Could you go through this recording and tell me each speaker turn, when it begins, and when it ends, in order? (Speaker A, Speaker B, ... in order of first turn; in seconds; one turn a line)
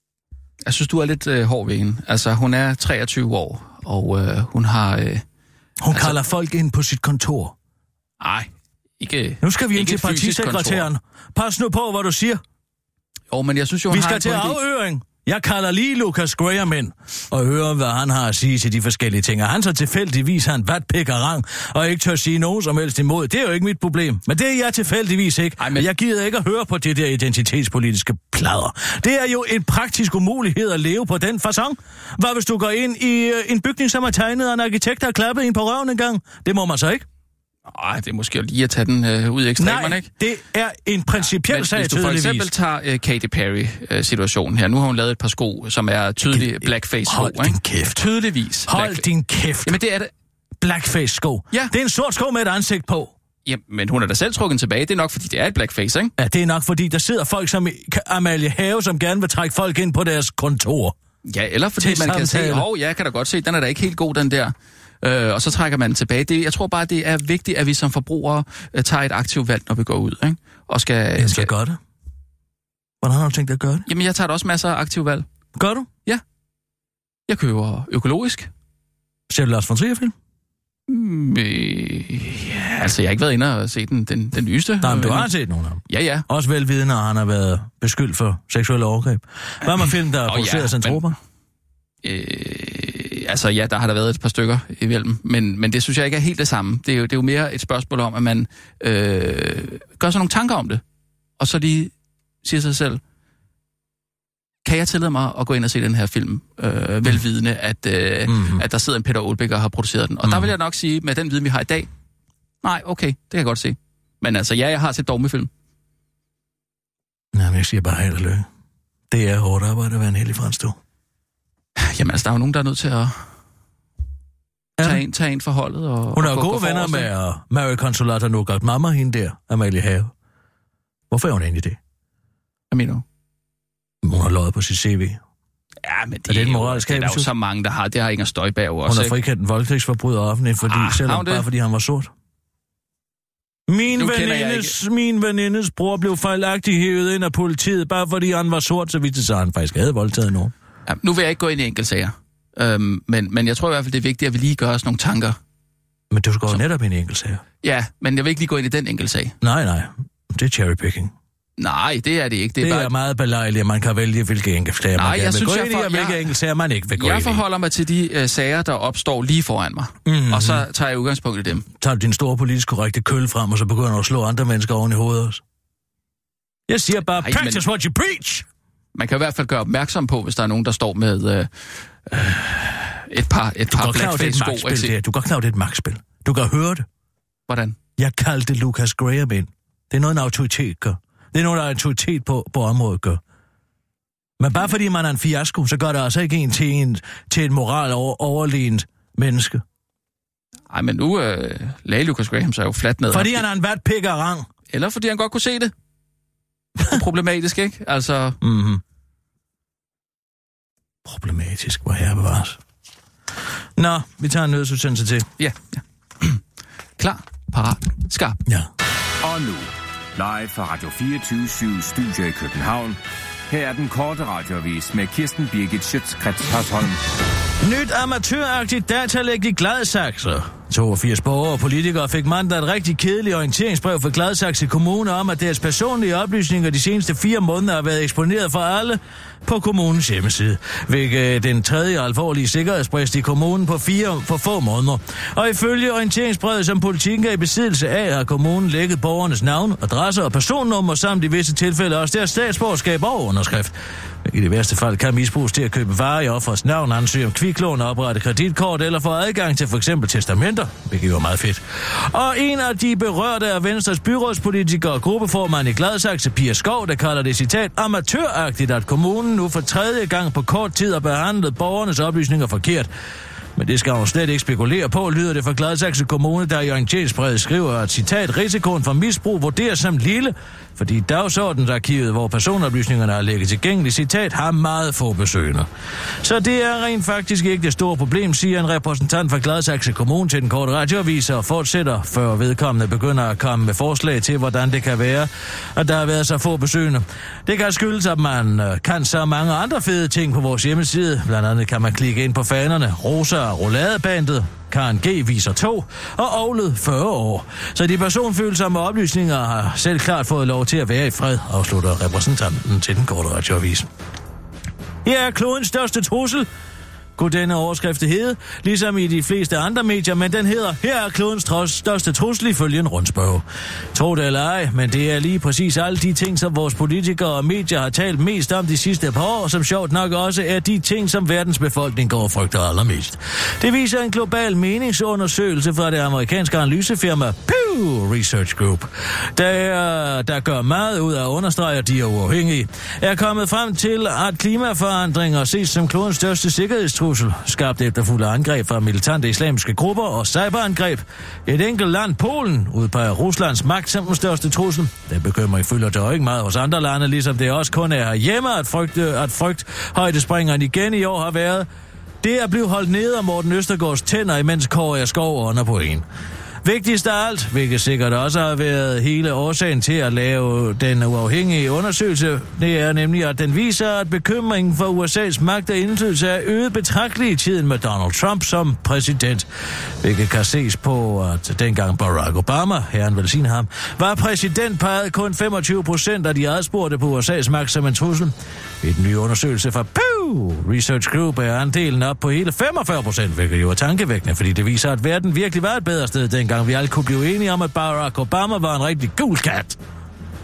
Speaker A: 0.6-5.2
Speaker B: 5.8-7.5
Speaker A: 5.9-6.2
Speaker A: 8.2-10.9
Speaker B: 9.4-12.4
Speaker A: 13.3-14.6
Speaker B: 13.9-37.0
Speaker A: 25.6-25.9
Speaker A: 37.7-40.1
Speaker B: 39.6-42.5
Speaker A: 41.2-49.1
Speaker B: 46.3-48.0
Speaker B: 48.6-49.8
Speaker A: 49.6-50.1
Speaker B: 50.6-53.1
Speaker A: 53.4-56.1
Speaker B: 56.2-61.0
Speaker A: 61.2-71.5
Speaker B: 61.8-62.6
Speaker B: 71.2-71.8
Speaker B: 73.0-73.9
Speaker A: 73.9-75.2
Speaker B: 75.5-75.9
Speaker A: 77.3-78.5
Speaker B: 79.3-80.1
Speaker A: 80.9-85.3
Speaker B: 84.8-91.2
Speaker A: 85.9-86.2
Speaker A: 90.2-91.1
Speaker A: 92.0-100.8
Speaker A: 101.4-101.9
Speaker A: 102.4-103.0
Speaker A: 104.6-111.9
Speaker B: 108.3-108.6
Speaker B: 110.2-110.5
Speaker A: 112.6-115.5
Speaker B: 117.3-118.5
Speaker B: 119.1-120.8
Speaker A: 121.8-123.4
Speaker B: 124.8-125.0
Speaker A: 124.8-127.1
Speaker B: 126.1-130.1
Speaker B: 131.1-131.8
Speaker A: 132.7-133.0
Speaker B: 134.0-135.2
Speaker A: 135.8-139.1
Speaker B: 136.3-137.3
Speaker B: 138.8-142.1
Speaker A: 140.6-141.5
Speaker B: 143.7-150.5
Speaker A: 143.9-144.8
Speaker A: 150.9-155.4
Speaker B: 156.1-157.4
Speaker A: 157.6-159.3
Speaker B: 159.4-161.1
Speaker A: 161.6-162.9
Speaker B: 162.6-167.4
Speaker A: 164.9-166.3
Speaker A: 166.9-171.7
Speaker B: 170.1-170.6
Speaker B: 171.8-175.4
Speaker B: 176.7-178.4
Speaker A: 177.2-177.6
Speaker A: 178.9-184.9
Speaker B: 183.7-186.8
Speaker A: 187.5-187.8
Speaker B: 188.0-193.2
Speaker B: 194.4-199.6
Speaker A: 200.7-203.4
Speaker B: 203.1-204.5
Speaker A: 204.7-205.7
Speaker A: 206.8-208.4
Speaker B: 208.4-208.8
Speaker B: 211.0-212.6
Speaker B: 213.8-215.3
Speaker A: 215.4-216.4
Speaker A: 217.0-218.4
Speaker B: 218.4-218.7
Speaker C: 219.2-227.0
Speaker B: 227.6-272.9
Speaker B: 273.6-285.7
Speaker B: 286.2-313.9
Speaker B: 315.0-316.5
Speaker B: 317.1-361.7
Speaker B: 362.2-366.1
Speaker B: 366.6-379.5
Speaker B: 380.0-399.8